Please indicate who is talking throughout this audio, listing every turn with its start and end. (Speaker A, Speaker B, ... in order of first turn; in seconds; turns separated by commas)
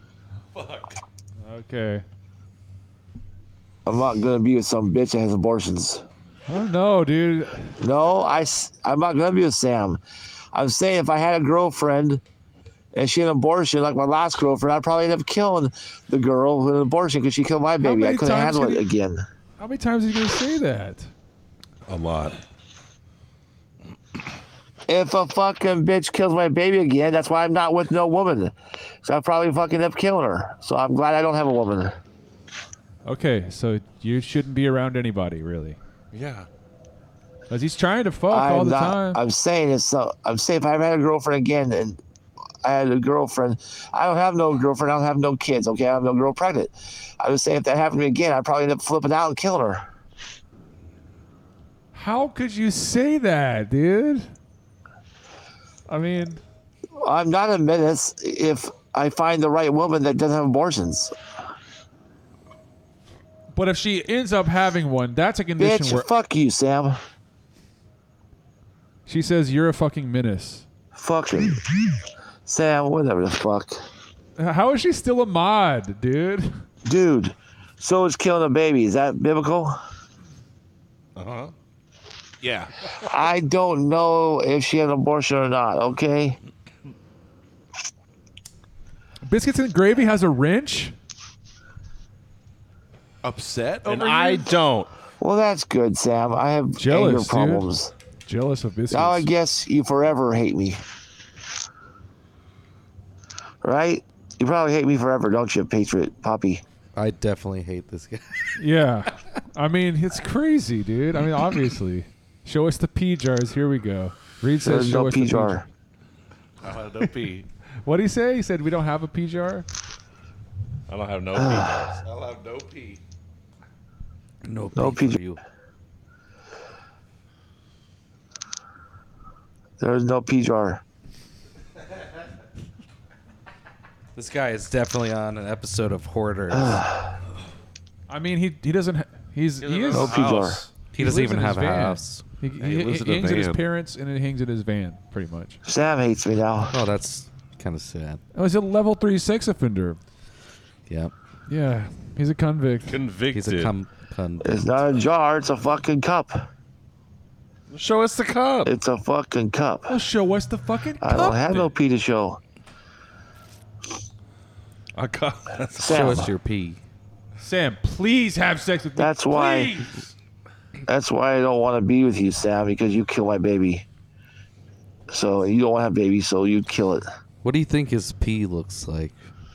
Speaker A: 1.4-2.0, Speaker B: 3.9-6.0, Speaker A: 6.5-7.7, Speaker B: 7.8-10.0, Speaker B: 10.5-12.2, Speaker B: 12.9-19.2, Speaker A: 17.8-18.9, Speaker A: 19.6-21.1, Speaker C: 21.9-22.4, Speaker B: 24.9-28.5, Speaker B: 29.0-31.9, Speaker A: 33.0-35.8, Speaker C: 36.1-36.5, Speaker A: 37.5-39.2, Speaker B: 38.3-42.0, Speaker B: 42.6-49.8, Speaker A: 51.9-54.3, Speaker A: 55.9-56.4, Speaker B: 57.0-61.1, Speaker A: 63.5-66.1, Speaker B: 65.6-67.0, Speaker A: 69.1-70.7, Speaker B: 71.0-71.6, Speaker B: 72.5-73.8, Speaker A: 74.4-76.7, Speaker B: 76.8-79.7, Speaker C: 81.2-81.5, Speaker D: 82.4-82.7, Speaker B: 83.1-86.4, Speaker A: 89.2-91.0, Speaker D: 93.2-94.6, Speaker C: 93.8-94.9, Speaker B: 95.2-97.9, Speaker A: 96.8-97.7, Speaker A: 98.2-99.3, Speaker B: 98.9-100.8, Speaker B: 103.6-106.6, Speaker E: 106.9-108.6, Speaker A: 108.6-115.6, Speaker B: 114.6-115.6, Speaker D: 116.6-117.5, Speaker A: 117.8-119.7, Speaker C: 120.9-122.0, Speaker D: 122.0-123.0, Speaker E: 124.4-125.4, Speaker B: 124.8-125.2, Speaker B: 129.8-130.8, Speaker E: 134.1-136.8, Speaker B: 136.6-137.1, Speaker A: 138.1-140.3, Speaker D: 139.6-140.7, Speaker B: 139.9-140.6, Speaker E: 140.9-142.2, Speaker A: 140.9-145.6, Speaker D: 142.6-143.6, Speaker B: 145.7-146.7, Speaker E: 146.7-148.2, Speaker A: 148.3-150.0, Speaker E: 150.9-151.1, Speaker A: 151.5-153.0, Speaker C: 152.8-153.7, Speaker E: 153.3-154.8, Speaker B: 154.5-156.3, Speaker C: 157.7-158.8, Speaker B: 158.7-159.9, Speaker A: 159.9-161.4, Speaker B: 161.0-162.4, Speaker C: 161.4-161.8, Speaker C: 164.9-166.1, Speaker B: 165.8-166.3, Speaker E: 165.8-166.8, Speaker A: 167.4-170.0, Speaker B: 169.0-169.7, Speaker B: 170.9-173.8, Speaker B: 175.1-177.0, Speaker E: 177.4-179.2